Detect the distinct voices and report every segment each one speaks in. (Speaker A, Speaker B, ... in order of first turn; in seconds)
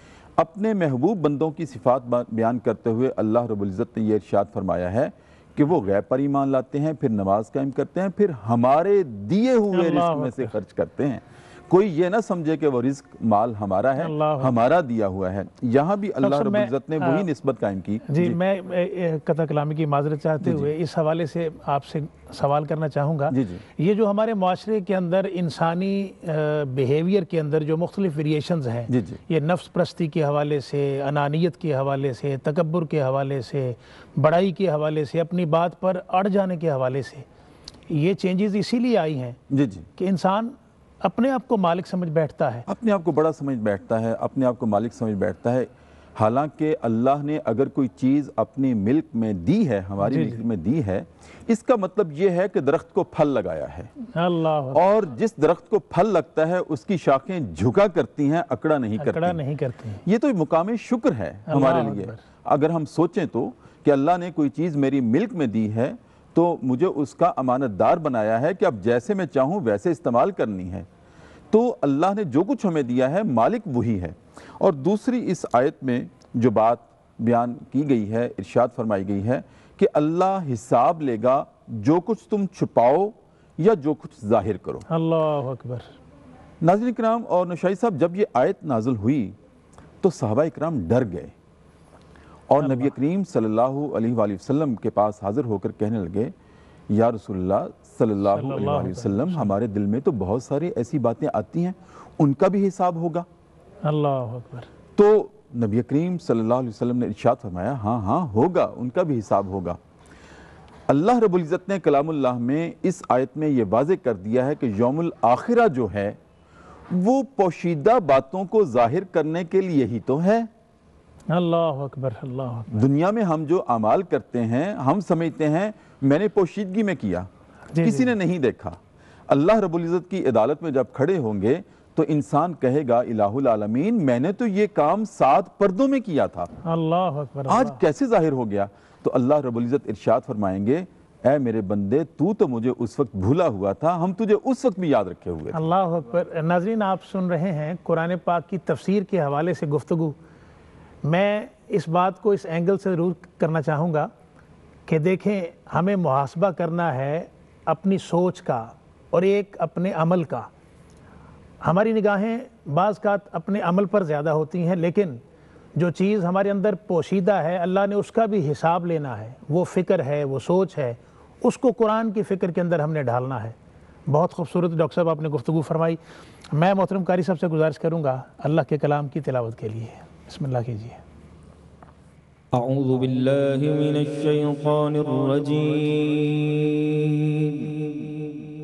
Speaker A: 0.4-18.4, 20.4-20.7, 23.3-23.6, 28.9-29.2, 39.5-39.9, 42.7-53.9, 54.7-59.4, 60.0-70.9, 71.5-84.8, 86.6-89.4, 90.0-91.3, 92.5-96.3, 96.9-103.2, 105.0-109.8, 110.9-116.2, 116.9-120.5, 122.7-127.3, 127.8-136.5, 137.5-145.6
Speaker B: 9.7-10.5, 14.0-14.5, 16.2-17.3, 18.1-37.2, 37.9-39.4, 40.0-42.6, 50.0-50.4, 54.1-54.8, 59.0-60.0, 61.5-62.2, 84.9-85.9, 92.6-92.9, 98.3-99.5, 103.8-104.7, 121.3-122.8, 127.7-128.1, 136.6-137.8, 145.5-150.2, 151.0-154.1, 154.9-160.5, 161.6-165.2, 165.7-173.6, 174.1-176.0, 176.5-181.0
Speaker C: 182.5-188.1